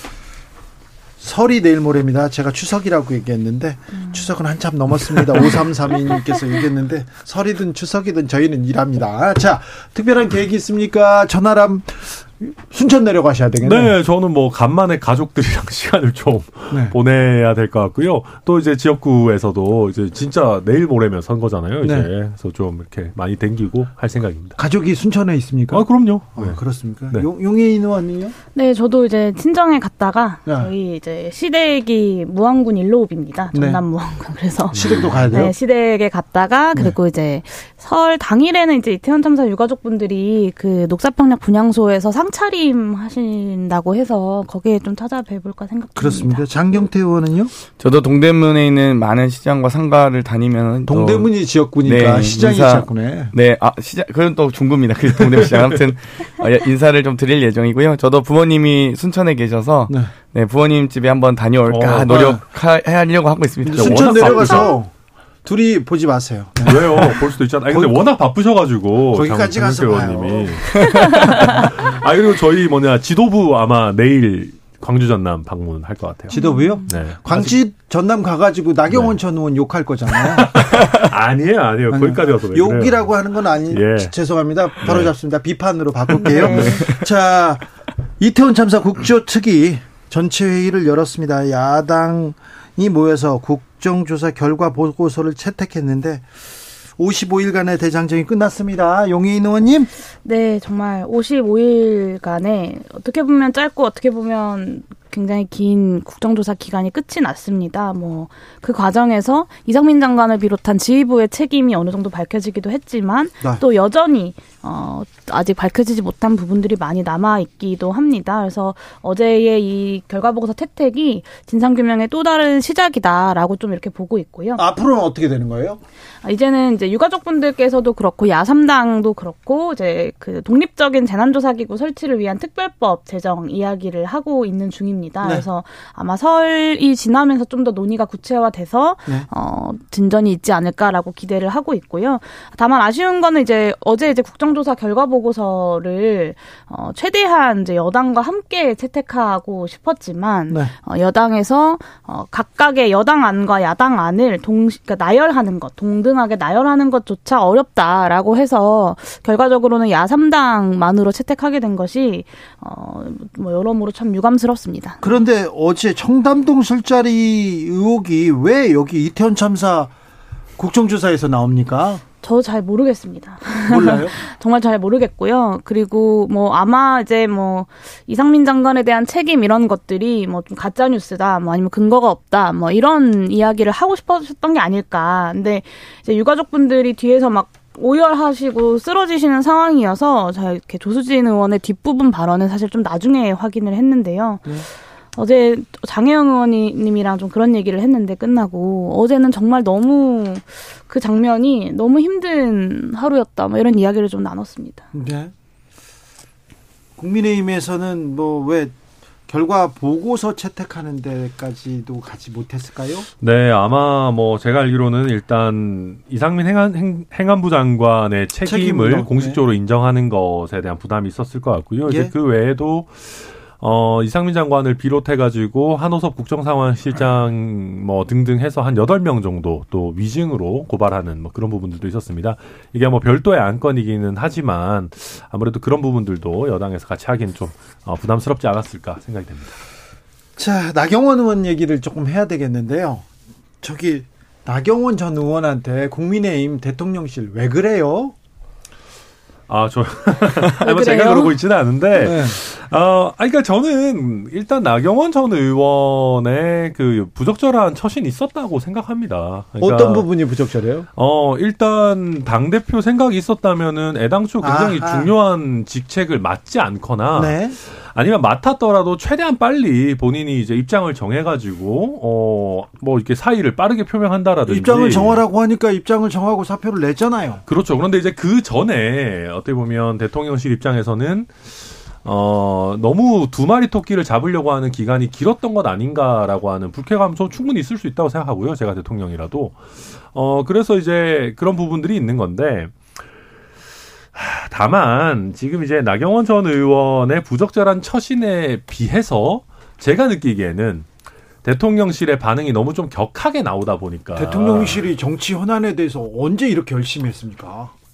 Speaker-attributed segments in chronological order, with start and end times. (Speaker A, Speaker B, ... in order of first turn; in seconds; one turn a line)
Speaker A: 1.2-13.9
Speaker B: 13.6-24.6
Speaker A: 16.7-16.9
Speaker A: 21.8-22.1
Speaker A: 24.6-28.3
Speaker B: 25.7-26.6
Speaker C: 28.5-46.5
Speaker A: 30.4-30.7
Speaker A: 33.5-33.8
Speaker A: 34.7-35.5
Speaker B: 34.7-35.4
Speaker A: 46.0-47.5
Speaker D: 47.8-51.3
Speaker A: 50.9-53.3
Speaker D: 51.8-64.5
Speaker B: 61.7-62.4
Speaker A: 62.0-62.4
Speaker A: 63.6-64.9
Speaker B: 63.7-64.8
Speaker A: 65.4-68.0
Speaker B: 66.6-76.3
Speaker A: 69.1-71.4
Speaker A: 76.3-80.8
Speaker C: 76.3-76.9
Speaker B: 76.9-77.5
Speaker B: 78.9-79.2
Speaker B: 80.2-83.1
Speaker A: 81.9-87.6
Speaker B: 83.7-84.1
Speaker B: 84.8-85.1
Speaker B: 86.1-86.8
Speaker C: 86.4-86.8
Speaker A: 88.2-96.3
Speaker A: 97.0-99.9
Speaker C: 100.2-124.6
Speaker A: 124.6-125.8
Speaker C: 126.2-165.2
Speaker A: 165.0-169.9
Speaker A: 170.6-172.0
Speaker C: 172.2-204.8
Speaker A: 173.7-174.2
Speaker A: 204.9-205.3
Speaker A: 207.0-208.7
Speaker A: 209.3-213.1
Speaker B: 213.2-239.6
Speaker A: 218.4-219.4
Speaker A: 221.8-222.1
Speaker A: 240.4-243.1
Speaker A: 243.6-248.1
Speaker B: 249.5-260.2
Speaker C: 250.6-251.3
Speaker A: 252.0-252.4
Speaker A: 259.6-260.9
Speaker B: 260.9-275.2
Speaker A: 264.4-265.1
Speaker A: 267.1-267.6
Speaker A: 274.5-277.4
Speaker B: 277.5-281.5
Speaker B: 282.0-289.6
Speaker B: 290.1-292.8
Speaker B: 294.1-300.9
Speaker B: 301.4-304.9
Speaker A: 304.1-307.7